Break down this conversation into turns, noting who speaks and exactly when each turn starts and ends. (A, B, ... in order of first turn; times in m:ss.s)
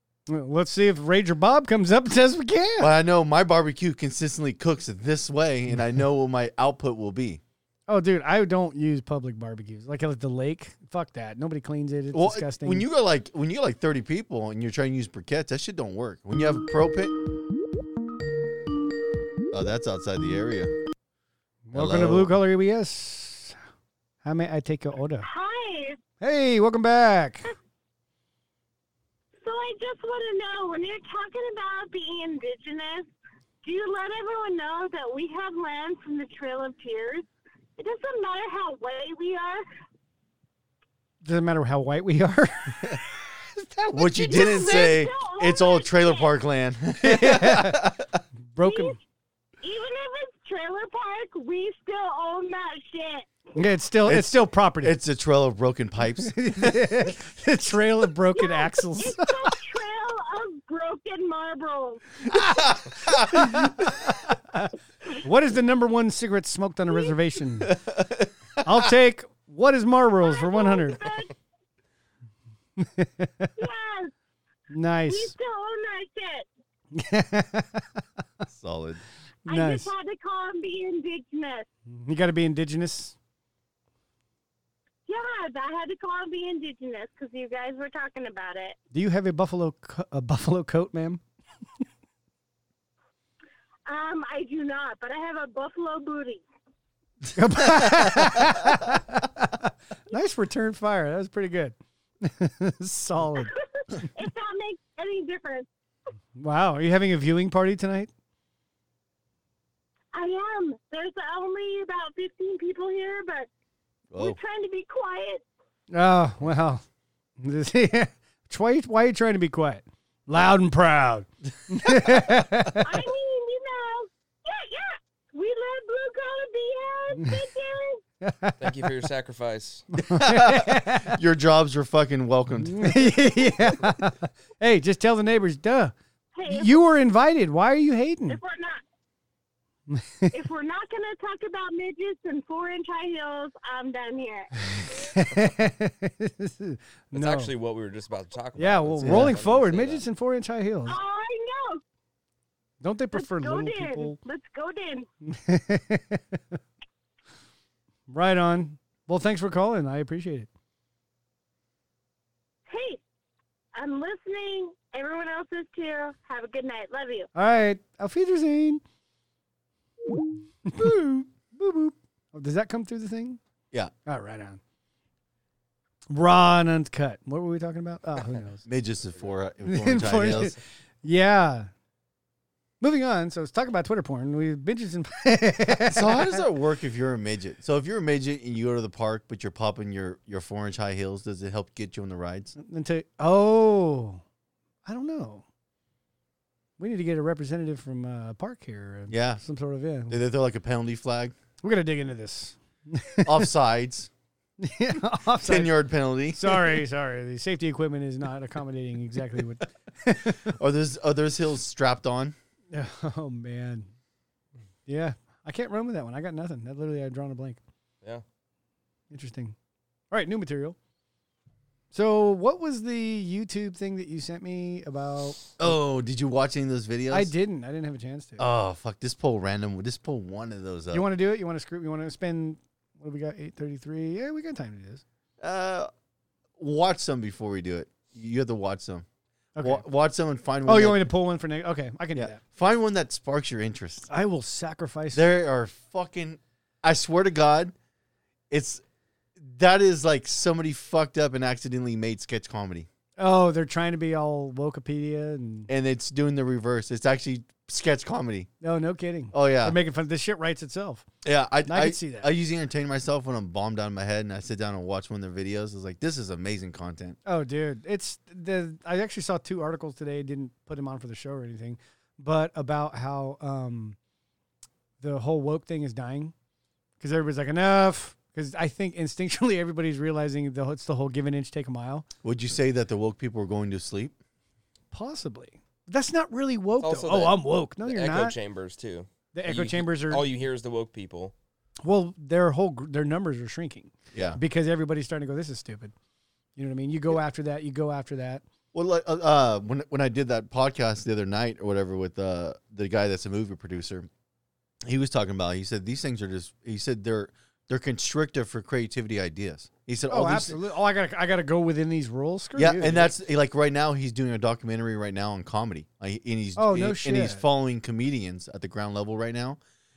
0:00.3-0:02.9 A
0:02.8-0:07.4 B
0:07.9-0:12.8 A
0:12.1-0:17.2 B
0:19.5-0:20.7 B
0:21.7-0:23.6 A
0:21.7-0:22.4 B
0:24.2-0:25.3 A
0:25.2-0:26.0 C
0:26.2-0:27.5 A
0:29.4-0:33.1 C
0:33.6-0:39.6 C
0:41.2-0:44.4 A
0:43.9-0:48.2 B
0:44.1-0:46.3 C
0:47.0-0:48.0 A
0:48.5-0:49.0 A
0:48.6-0:49.0 C
0:49.6-0:53.3 C
0:53.5-0:54.9 A
0:54.0-0:56.9 B
0:56.2-0:59.6 A
0:58.3-1:02.2 C
1:02.3-1:07.8 A
1:03.0-1:03.6 B
1:07.7-1:08.3 B
1:08.6-1:11.1 A
1:10.2-1:11.3 C
1:12.8-1:13.5 A
1:13.6-1:14.1 C
1:14.7-1:15.3 A
1:15.1-1:16.5 C
1:16.9-1:18.0 A
1:18.5-1:19.0 B
1:19.5-1:19.9 A
1:19.5-1:21.7 C
1:21.9-1:23.2 A
1:25.1-1:28.8 C
1:28.9-1:31.2 A
1:33.9-1:36.4 C
1:37.3-1:43.5 A
1:43.4-1:45.7 C
1:46.4-1:48.1 A
1:50.1-1:53.5 C
1:54.1-1:54.4 B
1:54.2-1:55.4 C
1:55.9-1:56.8 A
1:57.4-2:02.9 A
2:02.8-2:08.0 C
2:08.2-2:08.9 A
2:08.6-2:09.8 D
2:09.9-2:11.2 A
2:10.1-2:13.1 B
2:12.6-2:15.9 A
2:16.3-2:16.8 C
2:16.4-2:18.4 A
2:18.3-2:18.8 C
2:19.9-2:20.3 A
2:20.3-2:24.7 C
2:24.8-2:27.5 A
2:27.1-2:30.0 D
2:28.6-2:31.0 A
2:29.0-2:29.4 B
2:30.8-2:31.8 C
2:32.8-2:34.2 A
2:33.1-2:35.0 C
2:35.2-2:36.4 A
2:38.1-2:40.5 A
2:42.7-2:43.0 C
2:43.7-2:47.3 C
2:47.3-2:48.8 A
2:50.6-2:53.4 A
2:50.8-2:51.2 B
2:54.0-2:54.6 A
2:56.1-2:58.6 A
2:58.6-3:00.6 B
2:59.6-3:01.7 A
3:02.8-3:06.4 A
3:05.8-3:12.5 B
3:12.6-3:14.2 A
3:14.8-3:15.4 A
3:16.8-3:20.2 A
3:19.1-3:19.4 B
3:20.1-3:21.3 B
3:21.6-3:23.5 A
3:23.2-3:24.1 B
3:24.6-3:25.8 A
3:25.4-3:26.8 B
3:26.3-3:30.5 A
3:30.4-3:32.3 B
3:32.7-3:33.9 A
3:34.9-3:37.6 A
3:39.1-3:39.5 A
3:40.1-3:40.8 A
3:41.9-3:45.8 A
3:45.6-3:47.3 B
3:47.1-3:48.5 A
3:48.4-3:51.0 B
3:50.9-3:55.0 A
3:55.4-3:55.9 B
3:56.6-3:59.0 B
3:59.6-3:59.8 A
3:59.6-4:01.1 B
4:00.6-4:02.4 A
4:02.1-4:04.1 B
4:04.1-4:05.2 A
4:05.1-4:07.7 B
4:08.5-4:08.8 B
4:09.4-4:12.9 B
4:13.2-4:15.7 A
4:15.7-4:18.5 B
4:18.6-4:21.0 A
4:19.3-4:19.8 B
4:21.2-4:27.2 B
4:21.6-4:22.3 A
4:27.2-4:34.0 A
4:35.0-4:36.3 A
4:37.0-4:42.0 A
4:42.2-4:44.1 B
4:44.9-4:48.3 A
4:46.8-4:51.3 D
4:49.3-4:50.2 A
4:51.8-4:55.9 A
4:54.1-4:54.4 B
4:56.6-4:58.4 A
4:58.7-5:04.1 B
5:04.8-5:10.6 B
5:10.1-5:13.1 A
5:12.6-5:19.6 B
5:16.6-5:17.4 A